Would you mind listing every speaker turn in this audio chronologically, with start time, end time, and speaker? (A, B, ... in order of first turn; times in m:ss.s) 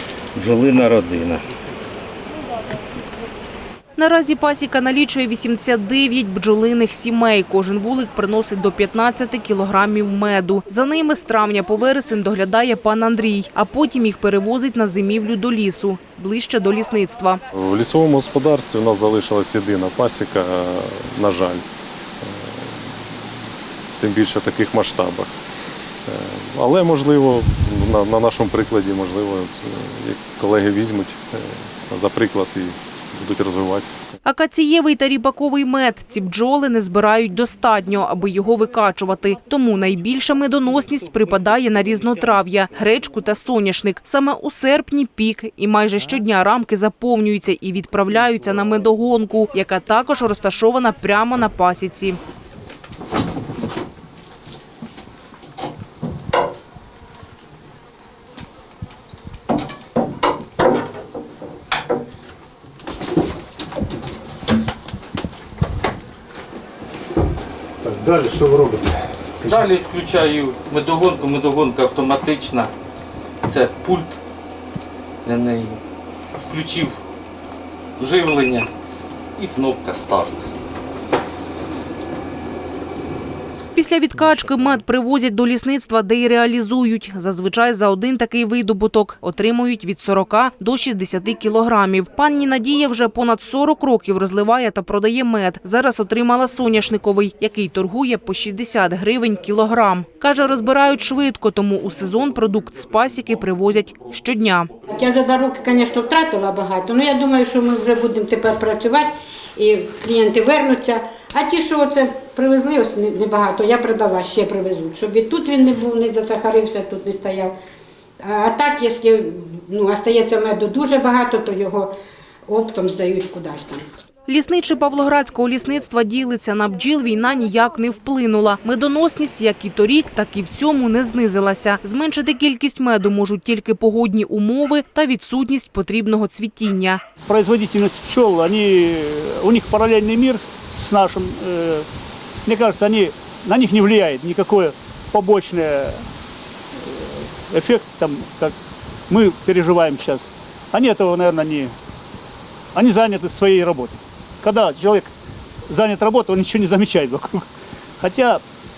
0:00.3-0:01.4 A
0:04.0-0:17.4 B
0:17.5-0:21.6 C
0:22.2-0:22.7 C
0:24.0-0:25.3 C
0:26.1-0:33.9 C
0:34.2-0:52.2 B
1:07.8-1:09.8 D
1:09.4-1:12.7 A
1:13.4-1:14.2 A
1:15.2-1:15.8 A
1:16.4-1:17.0 A
1:18.0-1:18.7 A
1:19.4-1:20.4 A
1:23.7-1:44.7 B
1:44.9-1:57.5 E
1:58.2-2:01.9 E
2:02.5-2:04.0 E
2:04.3-2:17.0 B
2:17.2-2:21.8 F
2:22.4-2:26.0 F
2:26.8-2:28.5 F
2:29.1-2:31.7 F
2:32.7-2:35.1 F
2:35.7-2:37.4 F
2:38.0-2:38.4 F